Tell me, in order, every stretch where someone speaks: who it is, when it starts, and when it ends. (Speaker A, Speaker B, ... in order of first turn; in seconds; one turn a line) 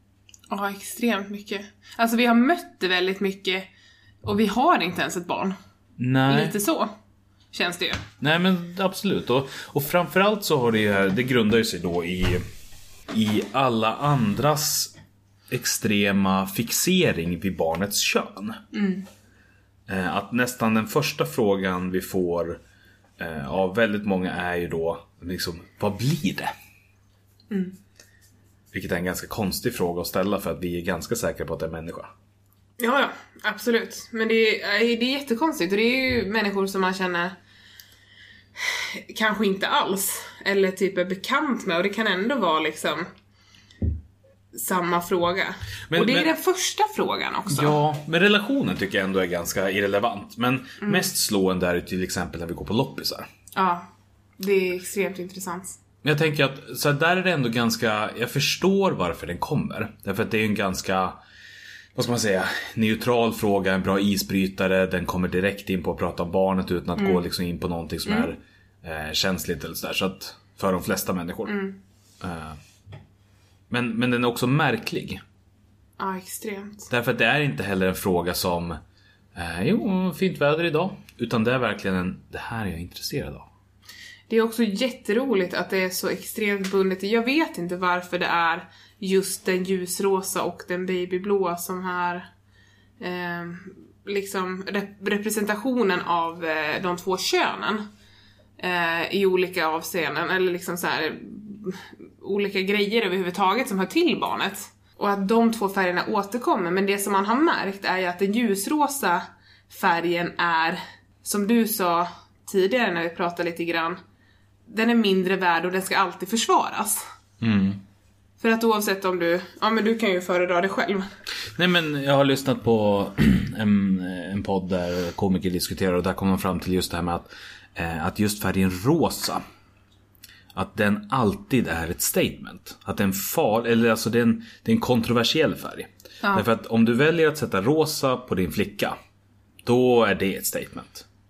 Speaker A: 0.5-3.7
Speaker A: 4.2-5.5
Speaker B: 6.0-6.5
Speaker A: 6.3-6.9
Speaker A: 7.5-8.0
Speaker B: 8.2-12.4
Speaker B: 13.1-14.9
Speaker B: 15.5-18.6
Speaker A: 18.7-19.0
Speaker B: 19.9-22.6
Speaker B: 23.2-26.5
Speaker A: 27.5-27.8
Speaker B: 28.7-32.1
Speaker A: 32.8-37.4
Speaker A: 38.6-43.0
Speaker A: 44.5-47.8
Speaker B: 45.9-46.3
Speaker B: 47.5-53.3
Speaker A: 53.5-53.9
Speaker A: 54.4-55.8
Speaker B: 56.0-61.2
Speaker B: 61.9-71.6
Speaker A: 67.0-67.2
Speaker A: 68.0-68.3
Speaker A: 71.5-71.8
Speaker B: 72.2-72.6
Speaker B: 73.7-75.2
Speaker A: 76.0-76.9
Speaker B: 76.9-78.8
Speaker B: 79.3-83.5
Speaker A: 84.3-92.3
Speaker A: 93.0-97.8
Speaker A: 98.6-114.0
Speaker A: 114.7-117.0
Speaker B: 117.4-117.8
Speaker A: 118.4-121.0
Speaker B: 121.5-129.4
Speaker B: 130.5-138.9
Speaker B: 139.6-141.0